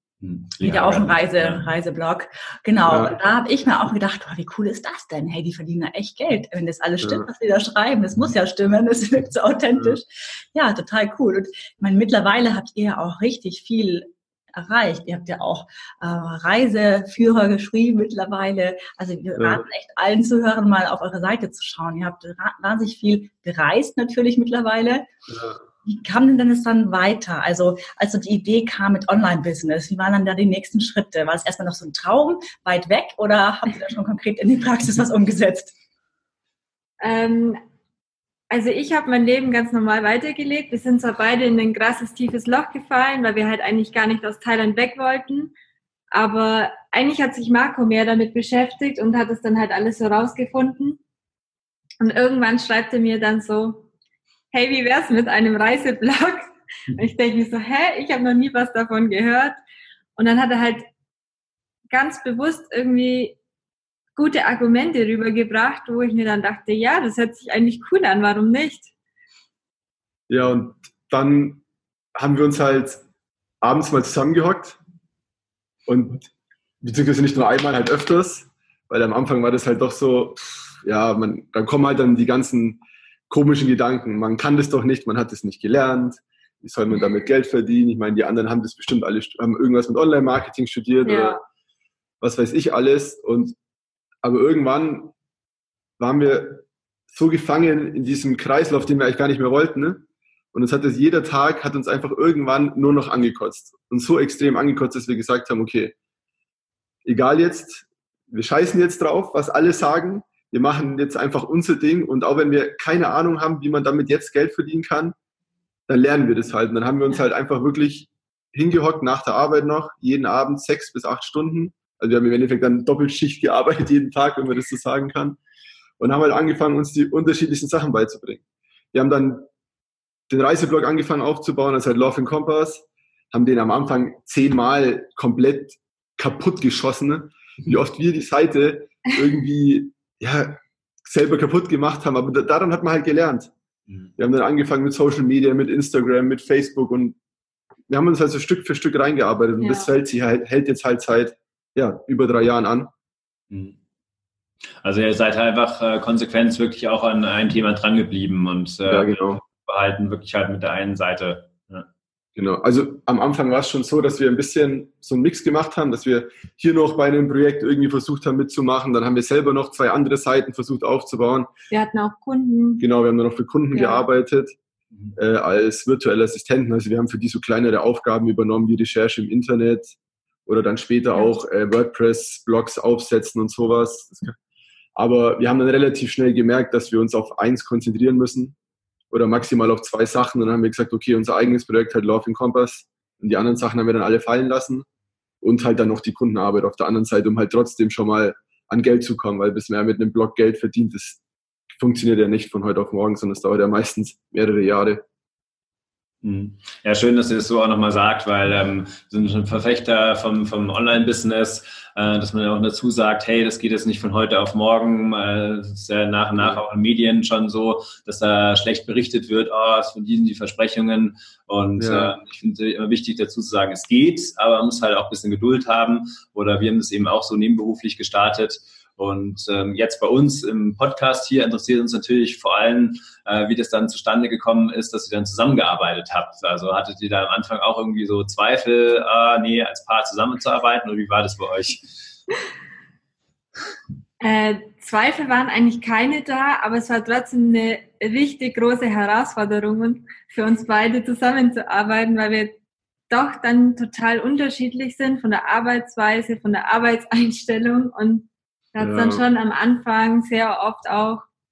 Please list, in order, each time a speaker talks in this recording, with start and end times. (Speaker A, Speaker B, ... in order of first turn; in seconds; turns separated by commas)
Speaker A: 0.2-1.6, Speaker B: 0.6-25.1, Speaker C: 2.9-3.1, Speaker C: 7.0-7.3, Speaker C: 19.4-19.6, Speaker C: 25.3-25.6, Speaker B: 25.8-35.7, Speaker D: 37.0-37.6, Speaker D: 38.5-45.5, Speaker D: 46.1-51.0, Speaker D: 52.0-53.9, Speaker D: 54.5-59.6, Speaker D: 60.1-60.9, Speaker D: 61.9-63.4, Speaker D: 64.2-68.9, Speaker C: 70.3-71.6, Speaker C: 72.1-73.0, Speaker C: 73.6-74.8, Speaker C: 75.9-76.3, Speaker C: 76.8-91.4, Speaker D: 91.0-91.4, Speaker C: 92.2-93.5, Speaker C: 94.2-95.1, Speaker C: 96.0-105.9, Speaker C: 107.0-115.1, Speaker C: 115.9-125.4, Speaker C: 126.0-128.4, Speaker C: 128.9-129.5, Speaker C: 130.3-143.5, Speaker C: 144.2-147.2, Speaker C: 147.9-152.9, Speaker D: 149.6-149.9, Speaker A: 153.5-153.8, Speaker A: 154.8-161.9, Speaker C: 158.9-159.4, Speaker C: 162.3-171.5, Speaker D: 171.7-172.8, Speaker C: 172.8-174.6, Speaker D: 173.7-174.0, Speaker C: 175.2-184.3, Speaker C: 184.9-188.5, Speaker C: 189.1-194.8, Speaker C: 195.4-201.2, Speaker C: 201.8-205.0, Speaker A: 206.2-241.8, Speaker C: 221.8-222.1, Speaker D: 244.2-252.6, Speaker D: 253.1-261.2, Speaker C: 258.8-259.2